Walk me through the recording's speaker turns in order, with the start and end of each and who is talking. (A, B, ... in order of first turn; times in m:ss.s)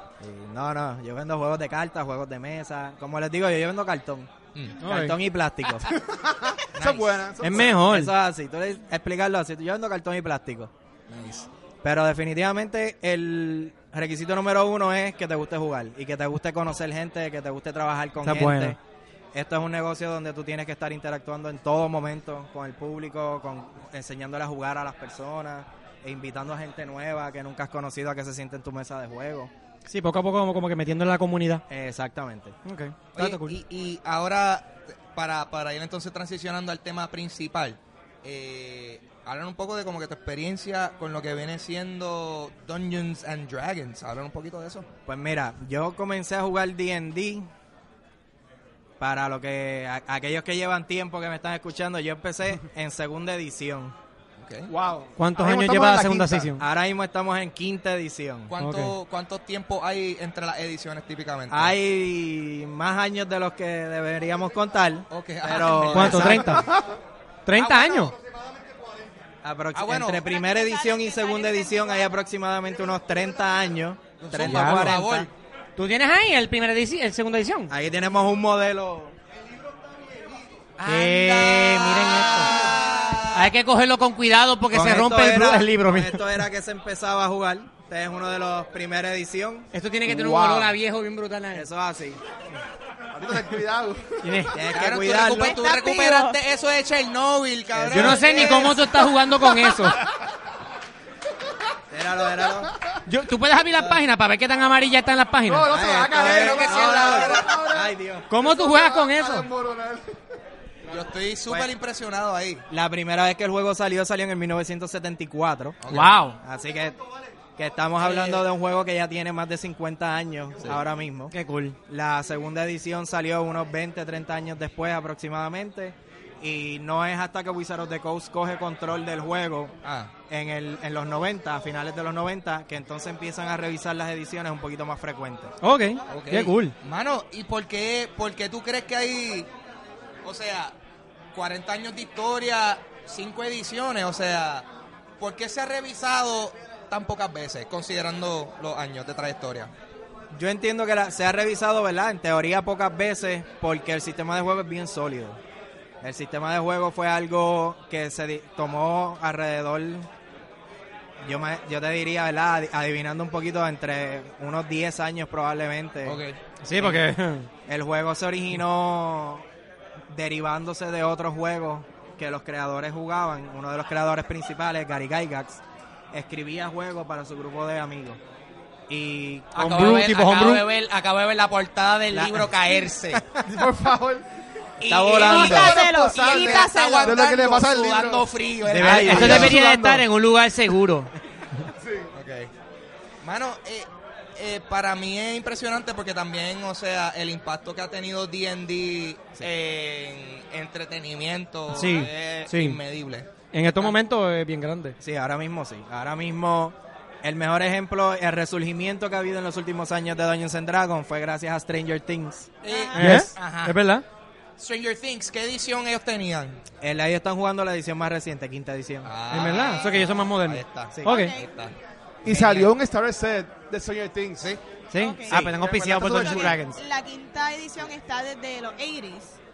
0:00.2-0:04.3 A
0:04.5-0:04.8 B
0:04.8-0:05.2 C
0:04.8-0:05.9 A
0:06.1-0:07.7 D
0:06.7-0:07.3 B
0:07.4-0:08.1 C
0:07.4-0:10.7 A
0:11.1-0:11.5 B
0:11.8-0:18.8 A
0:18.2-0:18.8 C
0:19.3-0:29.5 A
0:29.9-0:31.6 C
0:31.7-0:32.6 A
0:32.6-0:33.6 C
0:33.1-0:44.9 B
0:45.1-0:47.5 A
0:49.0-0:54.0 A
0:54.4-0:54.7 B
0:54.7-0:56.5 D
0:55.2-0:56.6 C
0:56.6-0:58.5 A
0:58.5-1:01.8 B
0:58.6-0:58.9 C
1:01.5-1:06.7 A
1:05.1-1:06.7 B
1:05.9-1:06.7 C
1:07.5-1:08.1 C
1:07.5-1:08.1 B
1:08.4-1:08.8 D
1:09.4-1:15.3 A
1:09.7-1:10.3 B
1:10.2-1:12.2 E
1:14.2-1:15.3 B
1:14.4-1:15.1 C
1:15.8-1:17.7 C
1:17.7-1:19.2 A
1:20.8-1:23.5 B
1:20.9-1:26.2 C
1:24.7-1:29.7 A
1:29.7-1:31.7 C
1:30.1-1:30.7 D
1:31.5-1:32.2 A
1:33.1-1:34.4 D
1:34.2-1:34.6 C
1:34.5-1:35.6 A
1:34.7-1:39.1 B
1:35.3-1:36.4 E
1:37.7-1:38.6 A
1:37.9-1:40.0 C
1:41.9-1:42.7 A
1:43.1-1:45.7 C
1:45.5-1:50.1 D
1:45.7-1:48.3 A
1:46.1-1:47.7 B
1:48.3-1:49.5 C
1:50.9-1:52.6 B
1:52.7-1:57.0 A
1:55.8-1:56.2 B
1:55.9-1:56.4 C
1:57.6-2:01.4 A
1:58.0-1:58.5 B
2:00.6-2:00.8 B
2:01.3-2:01.8 C
2:01.9-2:09.8 A
2:09.8-2:10.1 B
2:10.3-2:15.5 A
2:15.6-2:16.7 C
2:16.1-2:19.5 B
2:20.2-2:20.8 B
2:21.3-2:24.7 B
2:25.2-2:29.7 B
2:30.3-2:35.4 A
2:36.0-2:40.1 A
2:41.2-2:46.2 A
2:46.0-2:46.4 B
2:46.6-2:47.5 C
2:46.8-2:47.0 A
2:47.7-2:49.5 A
2:50.1-2:55.6 A
2:56.1-2:58.2 A
2:58.9-2:59.6 A
2:59.6-3:00.6 C
2:59.6-3:03.2 B
3:02.1-3:02.5 A
3:03.4-3:04.2 D
3:04.8-3:09.6 B
3:04.9-3:05.8 A
3:05.2-3:07.2 E
3:05.3-3:08.3 D
3:08.6-3:09.6 A
3:08.8-3:11.6 C
3:09.0-3:10.1 D
3:11.8-3:12.1 D
3:12.1-3:12.5 B
3:13.2-3:23.9 B
3:21.7-3:22.8 C
3:23.5-3:25.0 C
3:25.0-3:32.5 A
3:32.6-3:33.8 B
3:32.7-3:33.1 E
3:33.0-3:34.0 C
3:34.6-3:36.6 B
3:36.8-3:39.1 A
3:39.0-3:42.7 B
3:39.3-3:41.3 C
3:41.1-3:41.4 E
3:42.2-3:44.5 D
3:44.4-3:44.6 B
3:44.9-3:46.8 C
3:45.0-3:49.4 E
3:45.3-3:46.0 A
3:45.6-3:46.6 D